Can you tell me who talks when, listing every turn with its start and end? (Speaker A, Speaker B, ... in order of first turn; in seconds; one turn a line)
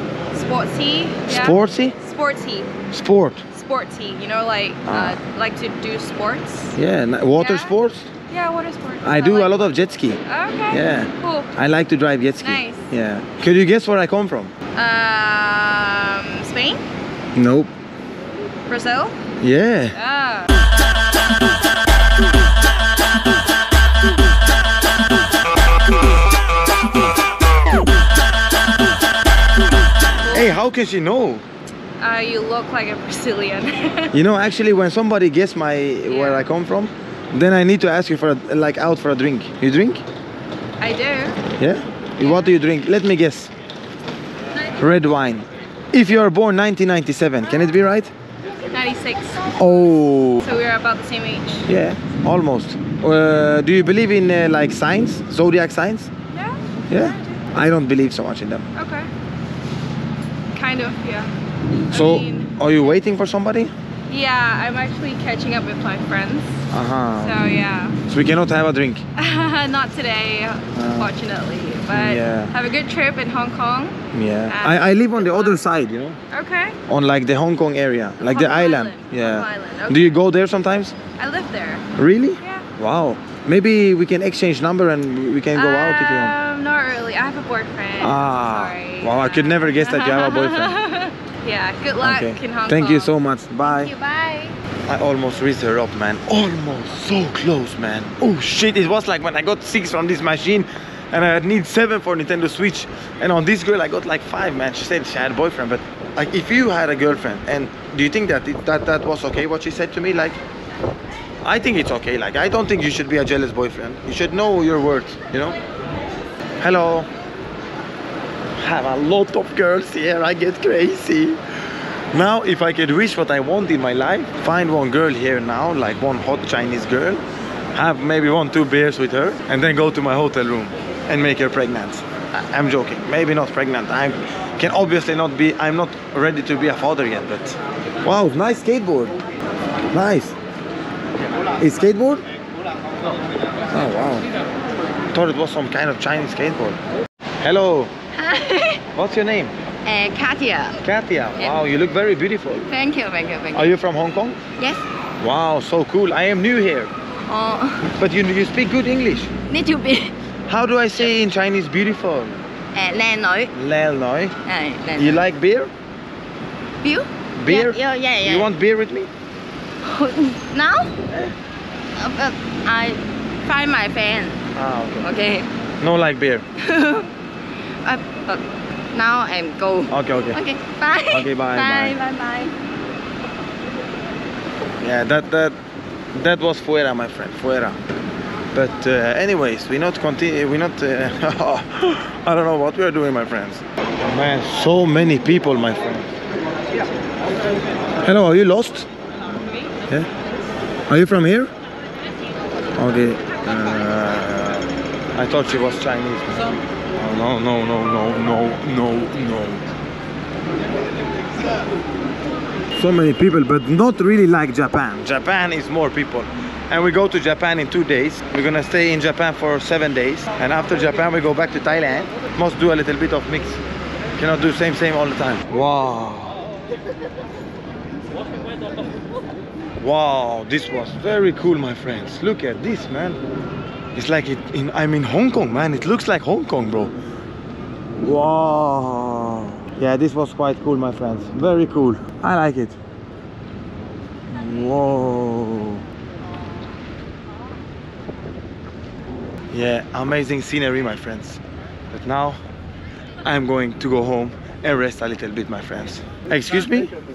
Speaker A: 0.3-2.7
Speaker B: 1.2-1.9
Speaker B: 2.9-3.4
Speaker A: 3.5-6.8
Speaker B: 4.9-5.1
Speaker B: 6.8-8.1
Speaker A: 7.3-7.7
Speaker A: 8.3-9.7
Speaker B: 9.0-14.5
Speaker A: 10.2-11.5
Speaker A: 12.4-12.9
Speaker A: 14.7-16.8
Speaker B: 17.3-17.7
Speaker A: 18.7-19.1
Speaker B: 19.4-19.9
Speaker A: 19.9-20.5
Speaker A: 30.3-30.5
Speaker B: 30.3-31.4
Speaker A: 32.0-34.1
Speaker B: 34.1-40.0
Speaker A: 36.1-36.5
Speaker A: 40.8-41.4
Speaker B: 41.6-43.5
Speaker A: 42.2-42.5
Speaker B: 44.8-48.1
Speaker A: 48.7-49.7
Speaker B: 49.6-50.4
Speaker A: 50.4-51.7
Speaker B: 51.7-56.1
Speaker A: 56.3-57.4
Speaker B: 56.9-58.6
Speaker A: 58.8-59.1
Speaker A: 60.5-61.3
Speaker A: 61.9-62.5
Speaker B: 61.9-63.7
Speaker A: 64.1-66.6
Speaker B: 66.7-67.4
Speaker A: 67.2-68.0
Speaker B: 68.1-69.0
Speaker A: 69.2-74.0
Speaker B: 70.7-71.1
Speaker B: 71.9-72.5
Speaker B: 74.1-76.2
Speaker A: 74.5-75.6
Speaker A: 76.3-76.8
Speaker B: 76.9-81.0
Speaker A: 78.2-80.2
Speaker A: 81.2-81.8
Speaker B: 82.0-86.3
Speaker A: 82.4-82.7
Speaker A: 85.5-93.1
Speaker B: 88.0-90.7
Speaker B: 92.0-93.9
Speaker C: 93.6-94.5
Speaker B: 94.8-110.4
Speaker B: 111.4-115.6
Speaker B: 116.6-117.1
Speaker B: 118.6-121.4
Speaker B: 122.1-127.2
Speaker B: 127.7-139.2
Speaker B: 139.9-140.3
Speaker B: 141.6-142.2
Speaker B: 143.7-144.3
Speaker B: 145.1-146.8
Speaker B: 147.4-147.9
Speaker B: 148.9-149.5
Speaker C: 149.9-150.7
Speaker B: 150.8-152.7
Speaker C: 152.7-153.7
Speaker B: 153.5-154.4
Speaker B: 155.2-156.9
Speaker C: 157.3-157.7
Speaker B: 157.8-159.3
Speaker C: 159.5-160.1
Speaker B: 160.5-162.3
Speaker C: 162.8-163.5
Speaker B: 163.5-164.3
Speaker C: 164.5-165.0
Speaker B: 164.9-165.7
Speaker C: 166.8-168.5
Speaker B: 167.4-169.1
Speaker C: 170.0-170.9
Speaker C: 172.0-174.4
Speaker B: 174.5-175.1
Speaker C: 175.1-175.4
Speaker A: 175.1-175.4
Speaker B: 175.8-176.4
Speaker C: 177.8-178.3
Speaker C: 178.9-182.5
Speaker B: 179.9-180.4
Speaker B: 181.1-182.0
Speaker B: 184.8-185.6
Speaker B: 186.1-187.8
Speaker B: 188.5-196.1
Speaker B: 198.0-198.9
Speaker B: 200.9-201.5
Speaker B: 202.8-209.7
Speaker B: 212.7-223.6
Speaker B: 224.2-226.4
Speaker B: 229.8-233.2
Speaker B: 233.9-236.9
Speaker B: 238.0-242.8
Speaker B: 244.3-245.8
Speaker B: 249.5-252.4
Speaker B: 253.2-256.9